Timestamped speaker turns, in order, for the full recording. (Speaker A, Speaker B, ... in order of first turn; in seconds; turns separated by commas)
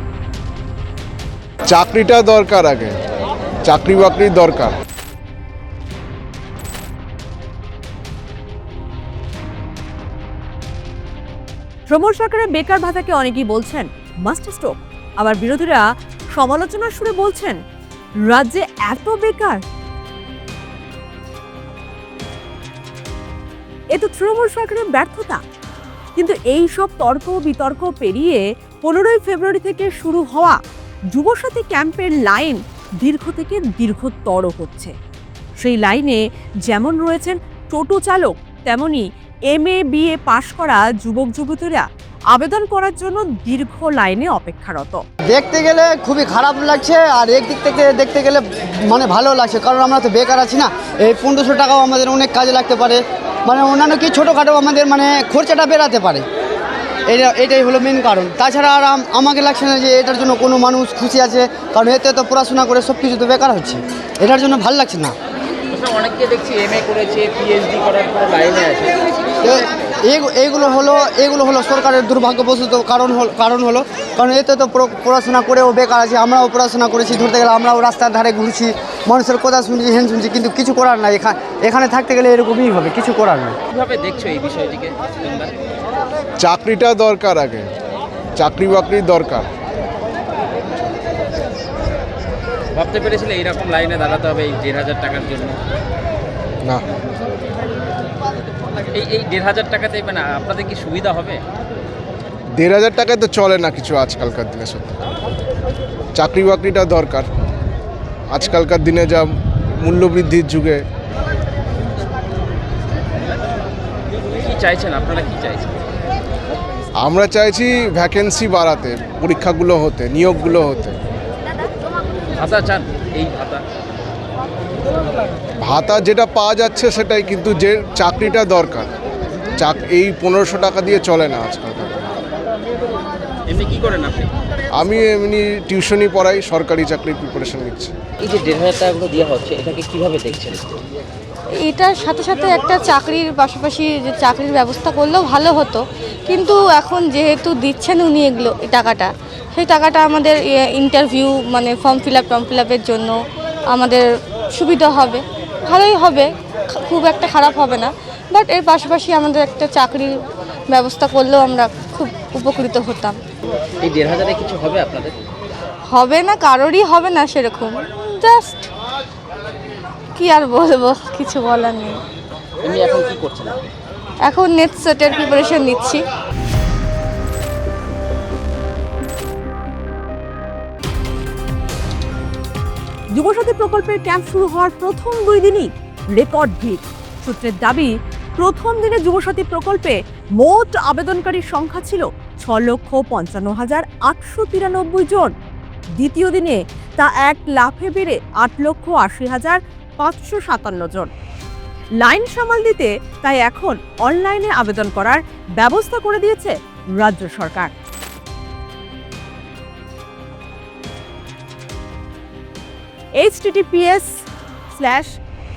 Speaker A: 1.7-2.9, Speaker A: 3.6-4.8, Speaker B: 11.9-17.6, Speaker B: 18.2-19.6, Speaker B: 23.9-25.4, Speaker B: 26.2-30.6, Speaker B: 31.1-34.9, Speaker B: 35.6-45.0, Speaker C: 45.3-56.2, Speaker C: 57.1-65.1, Speaker D: 65.7-69.2, Speaker C: 69.4-83.5, Speaker D: 83.7-85.5, Speaker A: 86.4-87.7, Speaker A: 88.4-89.5, Speaker D: 92.7-95.6, Speaker D: 98.9-101.4, Speaker A: 102.6-105.0, Speaker A: 106.2-107.3, Speaker A: 108.3-109.3, Speaker A: 109.8-110.8, Speaker D: 114.3-115.8, Speaker A: 117.0-121.0, Speaker D: 122.4-123.6, Speaker A: 125.6-128.9, Speaker A: 129.6-132.0, Speaker D: 133.5-134.3, Speaker A: 134.8-137.9, Speaker D: 138.2-140.8, Speaker E: 141.7-153.2, Speaker E: 153.7-160.1, Speaker E: 160.7-163.2, Speaker D: 163.8-165.2, Speaker E: 165.9-168.7, Speaker E: 170.2-172.0, Speaker D: 172.6-173.7, Speaker E: 174.3-176.0, Speaker B: 183.1-195.3, Speaker B: 196.0-201.1, Speaker B: 202.0-207.7, Speaker B: 213.2-214.1, Speaker B: 214.7-215.2